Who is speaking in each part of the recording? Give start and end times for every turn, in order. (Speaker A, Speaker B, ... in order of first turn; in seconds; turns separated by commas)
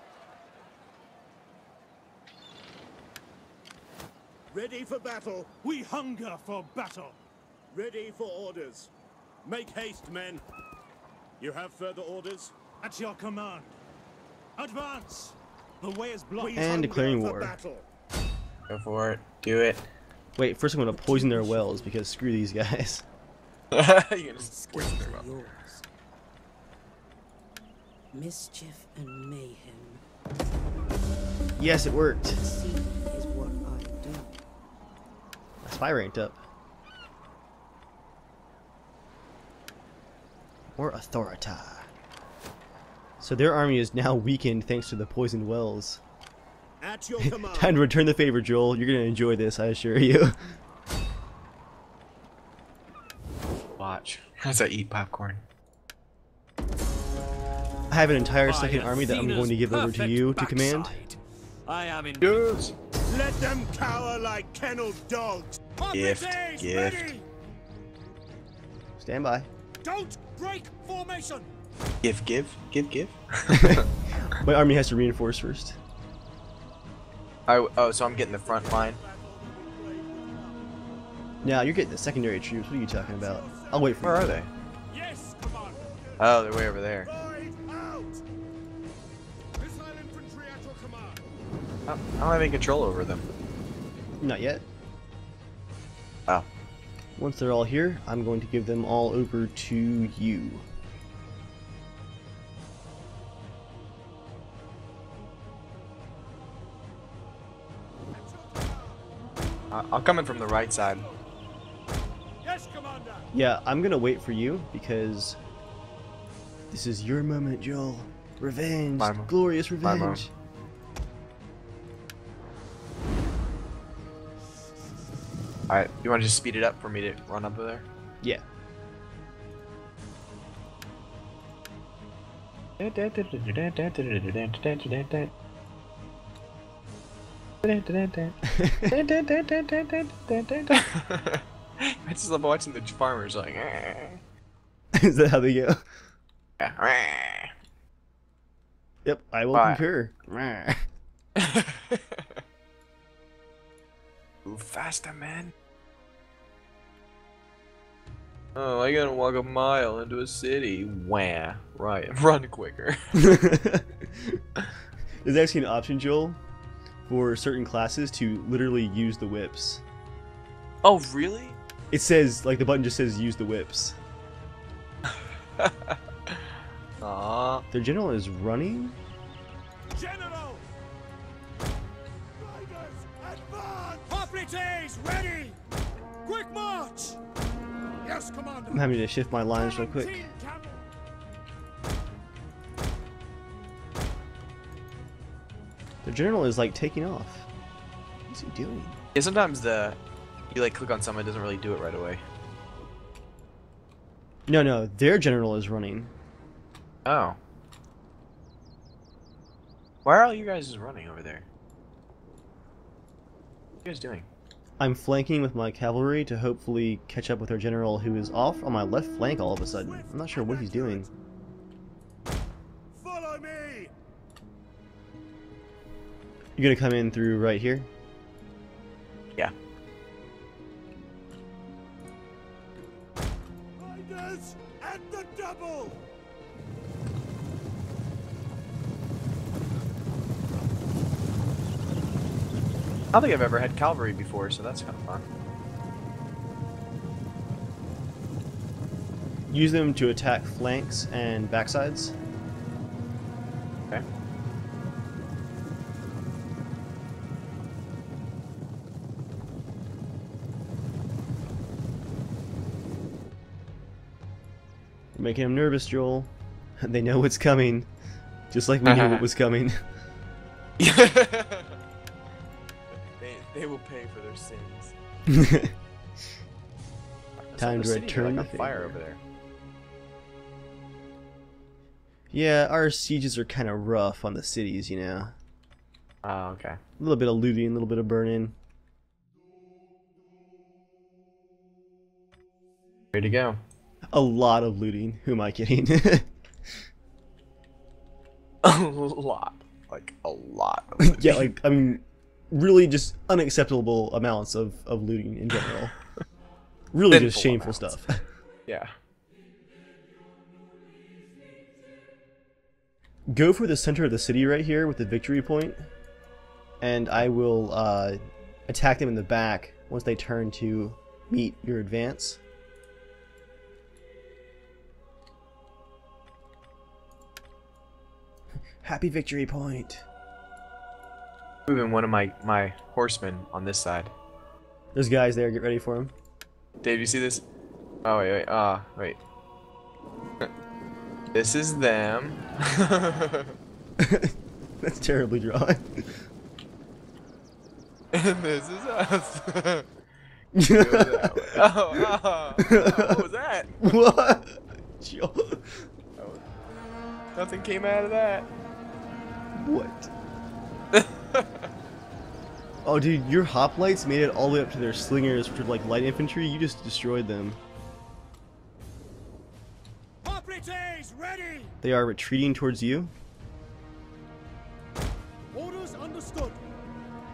Speaker A: 4.5-5.6, Speaker B: 5.6-7.2, Speaker A: 7.7-8.9, Speaker A: 9.4-10.4, Speaker A: 11.4-12.5, Speaker B: 12.8-13.8, Speaker B: 14.6-16.6, Speaker A: 16.4-17.9, Speaker C: 16.6-17.6, Speaker D: 18.7-19.9, Speaker C: 20.4-23.1, Speaker E: 20.9-22.0, Speaker D: 23.7-25.3, Speaker E: 24.4-25.9, Speaker E: 28.1-30.0, Speaker C: 31.6-32.4, Speaker E: 32.3-34.4, Speaker C: 35.6-36.4, Speaker C: 40.8-41.9, Speaker C: 43.2-46.0, Speaker A: 46.8-47.8, Speaker C: 47.2-50.4, Speaker D: 53.8-55.4, Speaker C: 57.9-61.0, Speaker F: 58.5-62.4, Speaker D: 62.2-62.7, Speaker A: 63.1-65.6, Speaker B: 65.8-67.3, Speaker D: 65.9-67.2, Speaker C: 69.0-69.5, Speaker B: 69.8-71.5, Speaker D: 72.0-73.9, Speaker C: 73.5-75.8, Speaker D: 77.5-79.0, Speaker A: 77.8-80.8, Speaker C: 81.4-84.3, Speaker A: 83.0-84.2, Speaker D: 84.0-84.5, Speaker B: 84.9-85.8, Speaker A: 85.6-86.4, Speaker D: 86.2-87.1, Speaker A: 87.0-88.2, Speaker A: 89.6-91.2, Speaker D: 91.9-93.3, Speaker C: 94.2-94.7, Speaker C: 97.2-100.7, Speaker A: 108.3-109.0, Speaker D: 109.7-111.1, Speaker B: 112.5-113.2, Speaker C: 113.3-115.4, Speaker C: 116.7-120.3, Speaker D: 119.0-120.3, Speaker D: 125.7-127.9, Speaker D: 132.8-135.3, Speaker D: 137.6-144.2, Speaker C: 138.5-139.0, Speaker C: 144.9-145.8, Speaker D: 146.6-147.5, Speaker C: 149.1-150.8, Speaker D: 149.5-149.8, Speaker D: 151.4-152.3, Speaker D: 154.4-155.5, Speaker D: 158.6-163.3, Speaker C: 163.2-164.4, Speaker C: 165.2-166.4, Speaker C: 167.1-169.8, Speaker D: 170.8-171.6, Speaker C: 171.9-174.0, Speaker D: 175.1-176.4, Speaker D: 177.0-177.7, Speaker C: 177.7-179.0, Speaker B: 179.9-180.6, Speaker A: 182.4-184.3, Speaker B: 184.1-185.6, Speaker B: 186.2-187.2, Speaker A: 188.0-188.8, Speaker C: 188.7-190.3, Speaker B: 189.5-190.9, Speaker C: 196.0-197.5, Speaker C: 198.3-199.0, Speaker D: 199.2-200.0, Speaker D: 200.5-202.2, Speaker C: 204.5-206.1, Speaker D: 207.1-207.4, Speaker D: 210.1-211.5, Speaker D: 213.8-214.3, Speaker C: 214.8-221.1, Speaker A: 219.6-221.1, Speaker A: 222.9-223.9, Speaker C: 226.6-227.9, Speaker A: 233.8-236.0, Speaker D: 243.1-245.3, Speaker C: 249.5-252.2, Speaker C: 265.1-267.9, Speaker C: 268.5-269.8, Speaker D: 268.9-269.2, Speaker D: 270.8-271.8, Speaker D: 273.2-274.9, Speaker C: 275.3-275.8, Speaker D: 277.4-279.2, Speaker C: 277.6-279.0, Speaker C: 282.3-285.4, Speaker D: 286.2-286.8, Speaker C: 287.0-288.6, Speaker D: 293.1-293.6, Speaker C: 294.1-296.3, Speaker D: 298.6-301.5, Speaker C: 301.0-305.9, Speaker C: 306.9-308.2, Speaker D: 307.1-307.9, Speaker D: 308.7-308.9, Speaker C: 313.3-315.9, Speaker C: 316.8-322.4, Speaker C: 328.8-330.1, Speaker D: 331.7-334.1, Speaker C: 334.9-336.1, Speaker D: 336.8-337.4, Speaker D: 338.1-339.2, Speaker D: 341.3-343.6, Speaker C: 344.0-346.2, Speaker D: 348.1-349.9, Speaker C: 350.5-353.3, Speaker D: 350.7-353.8, Speaker C: 353.8-355.9, Speaker D: 356.2-356.4, Speaker D: 357.4-358.5, Speaker C: 359.6-360.1, Speaker D: 360.9-361.7, Speaker C: 362.8-367.6, Speaker B: 370.2-371.7, Speaker C: 371.8-373.1, Speaker A: 375.5-376.6